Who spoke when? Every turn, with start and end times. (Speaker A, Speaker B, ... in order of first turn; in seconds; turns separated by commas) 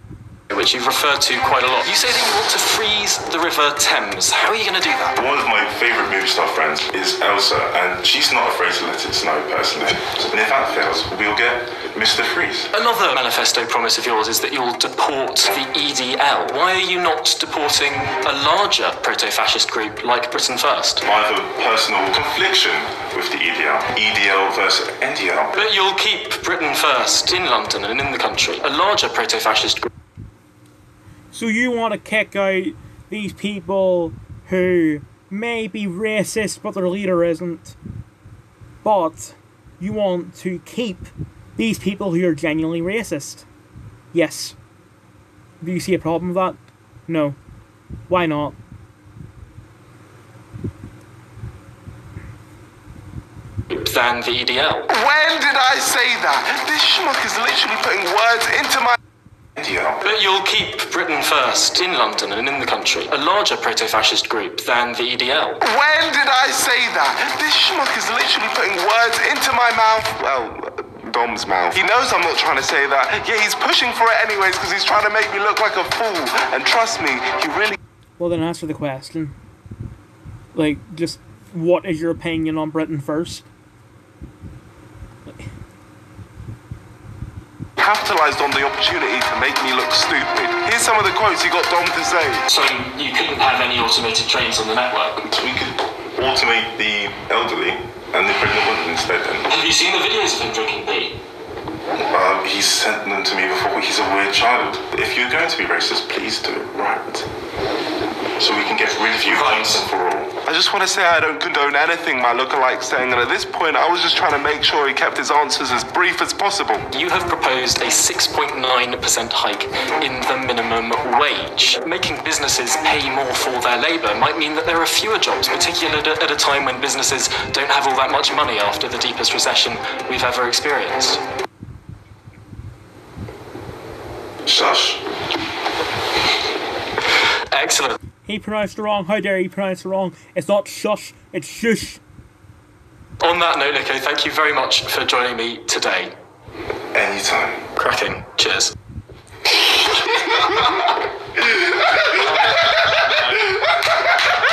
Speaker A: 0.5-5.1, Speaker B: 5.2-12.7, Speaker A: 12.7-21.0, Speaker B: 21.0-25.6, Speaker A: 25.5-29.9, Speaker C: 31.3-37.8, Speaker C: 38.8-43.5, Speaker C: 44.1-44.6, Speaker C: 45.6-47.4, Speaker C: 48.1-48.6, Speaker A: 53.7-54.9, Speaker D: 54.9-59.0, Speaker B: 59.6-60.0, Speaker A: 60.0-65.6, Speaker D: 65.6-77.8, Speaker C: 78.2-79.4, Speaker C: 80.5-83.5, Speaker D: 87.8-92.5, Speaker A: 92.5-95.2, Speaker B: 95.3-99.5, Speaker A: 99.5-101.2, Speaker B: 102.0-107.3, Speaker B: 108.4-110.3, Speaker A: 109.3-109.8, Speaker D: 110.4-116.9, Speaker A: 116.9-131.2, Speaker B: 134.4-135.0, Speaker A: 137.5-138.0, Speaker C: 138.2-142.0, Speaker A: 143.2-146.1, Speaker B: 146.9-147.6, Speaker A: 147.8-148.7, Speaker D: 152.2-152.6, Speaker D: 153.5-154.2